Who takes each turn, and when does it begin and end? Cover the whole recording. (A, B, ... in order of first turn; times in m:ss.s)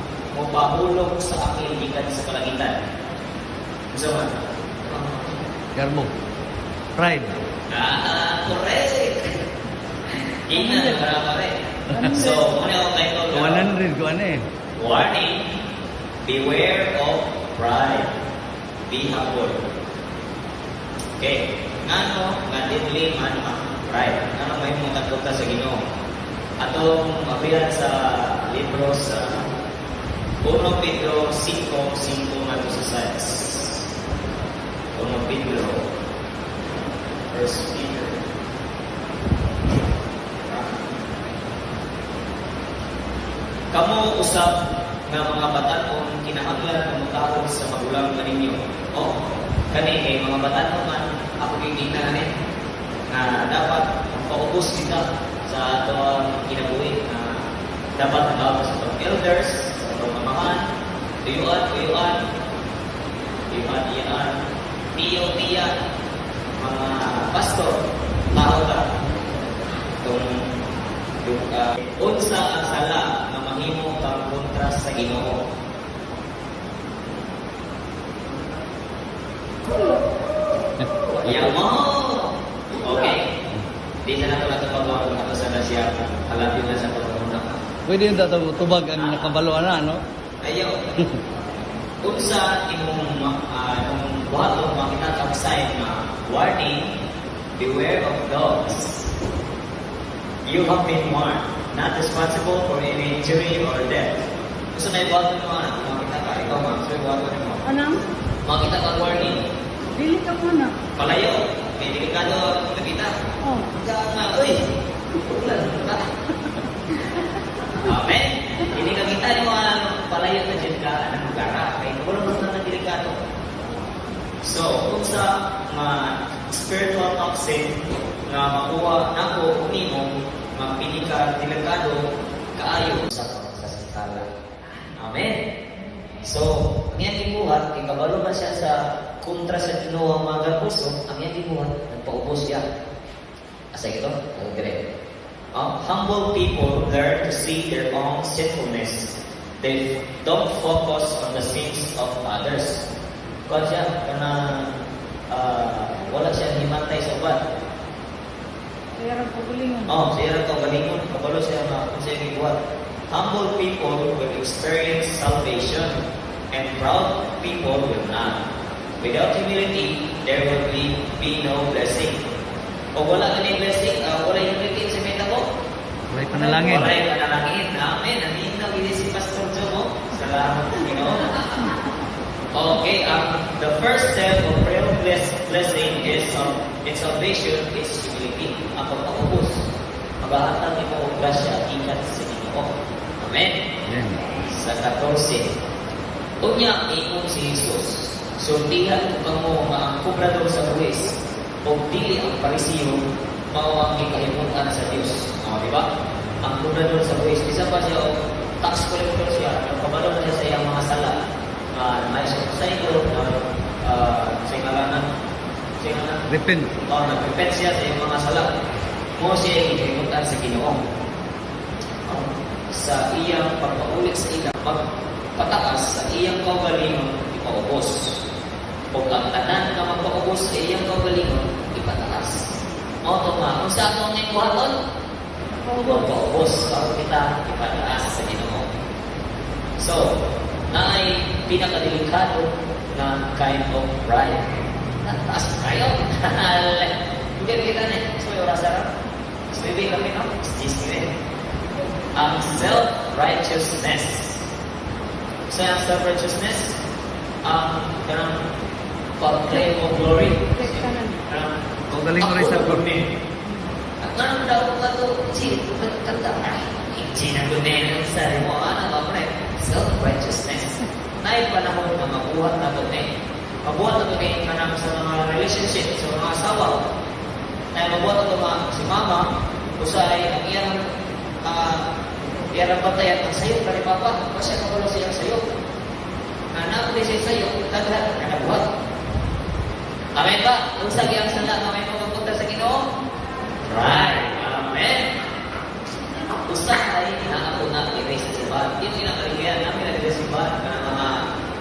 0:00.3-0:02.8 A
0:03.9-0:04.3 A
0:04.9-0:05.3 A
0:05.8-0:06.1 B
0:07.0-0:07.4 B
0:07.7-0:09.4 A
0:10.5-0:13.7 A
0:10.6-0:11.0 B
0:11.9-0:12.2 B
0:11.9-0:12.5 C
0:13.3-0:14.4 B
0:14.8-0:15.5 A
0:16.2-0:18.1 A
0:18.9-0:19.6 A
0:21.2-0:25.8 A
0:26.6-0:29.4 A
0:30.4-0:33.8 A
0:35.0-0:35.8 A
0:37.3-0:38.2 A
0:40.4-0:41.0 A
0:43.7-0:44.5 A
0:45.1-0:49.2 A
0:49.7-0:52.3 A
0:53.1-0:57.4 A
0:58.0-1:00.6 A
1:01.2-1:02.2 A
1:03.5-1:04.4 A
1:05.0-1:05.8 A
1:06.6-1:07.8 A
1:08.3-1:08.9 A
1:10.0-1:10.4 A
1:11.2-1:15.4 A
1:21.1-1:23.3 A
1:24.0-1:27.6 A
1:27.9-1:30.0 B
1:28.9-1:29.3 A
1:30.4-1:31.1 A
1:32.0-1:36.9 A
1:37.6-1:39.0 A
1:40.4-1:47.6 A
1:47.7-1:48.0 C
1:48.4-1:49.5 A
1:50.0-1:50.7 C
1:51.0-1:53.1 A
1:53.7-1:56.1 A
1:57.7-2:03.2 A
2:04.4-2:14.3 A
2:15.0-2:15.4 A
2:16.2-2:22.6 A
2:23.7-2:24.8 A
2:25.5-2:32.8 A
2:33.5-2:34.7 A
2:35.3-2:37.4 A
2:39.0-2:39.9 C
2:39.9-2:42.6 A
2:43.1-2:46.0 A
2:46.5-2:48.4 A
2:49.0-2:52.2 A
2:53.0-2:55.4 A
2:56.1-2:56.9 B
2:56.4-3:01.4 A
3:02.5-3:09.7 A
3:10.2-3:13.6 A
3:13.9-3:14.2 B
3:14.5-3:15.5 A
3:16.4-3:25.8 A
3:26.4-3:31.2 A
3:31.7-3:35.1 A
3:35.8-3:36.2 A
3:36.3-3:36.7 B
3:36.8-3:38.5 A
3:39.2-3:40.8 A
3:42.1-3:44.8 A
3:45.4-3:48.1 A
3:48.9-3:52.4 A
3:53.0-3:54.7 A
3:55.7-3:56.1 C
3:55.8-3:58.7 A
3:59.8-4:00.2 A
4:00.7-4:04.5 A
4:05.0-4:08.9 A
4:09.5-4:11.1 A
4:12.2-4:14.4 A
4:15.5-4:16.8 A
4:17.4-4:18.4 A
4:19.2-4:21.6 A
4:20.6-4:21.2 C
4:21.9-4:22.8 B
4:22.2-4:23.0 A
4:24.0-4:33.1 A
4:33.6-4:36.8 A
4:37.7-4:39.3 A
4:39.8-4:40.8 A
4:41.4-4:41.8 A
4:42.5-4:45.4 A
4:46.5-4:48.6 A
4:50.2-4:52.8 A
4:53.6-4:55.1 A
4:56.4-5:01.2 A